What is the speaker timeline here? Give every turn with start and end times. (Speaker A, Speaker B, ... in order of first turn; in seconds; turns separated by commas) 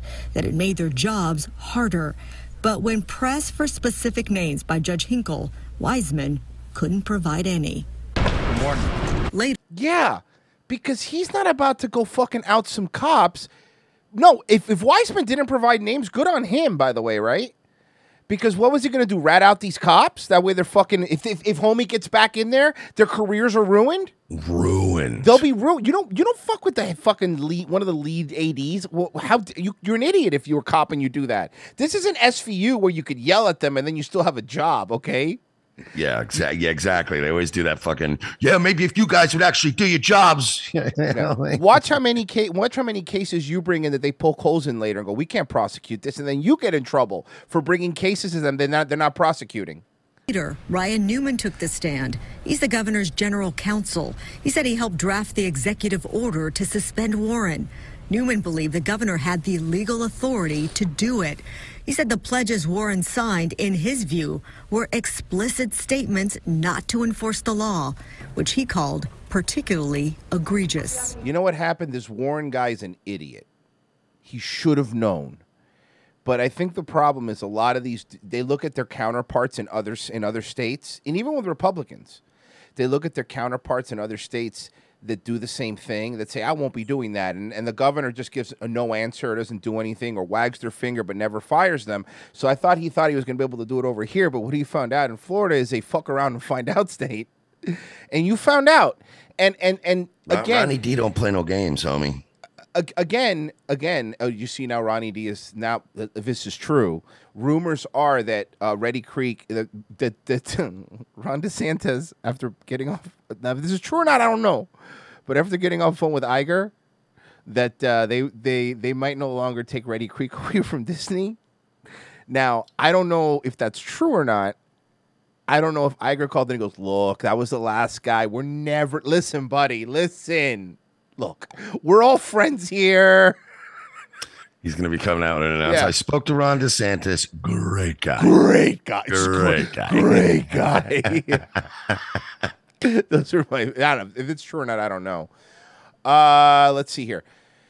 Speaker A: 0.3-7.8, Speaker A: 9.3-9.6, Speaker B: 9.7-13.5, Speaker B: 14.1-17.5, Speaker B: 18.3-24.1, Speaker C: 24.3-25.4, Speaker B: 25.2-35.4, Speaker C: 35.9-41.8, Speaker B: 41.1-49.8, Speaker A: 50.3-71.1, Speaker B: 71.2-73.5, Speaker B: 74.2-75.4, Speaker B: 76.2-82.2, Speaker B: 82.8-100.8, Speaker C: 100.3-102.2, Speaker B: 102.7-114.7, Speaker B: 115.3-116.7, Speaker B: 117.5-121.4, Speaker B: 122.3-124.5, Speaker B: 125.5-133.4, Speaker C: 134.6-138.3, Speaker B: 135.6-135.9, Speaker B: 138.2-141.4, Speaker C: 139.1-141.4, Speaker B: 142.8-145.3, Speaker B: 146.0-147.2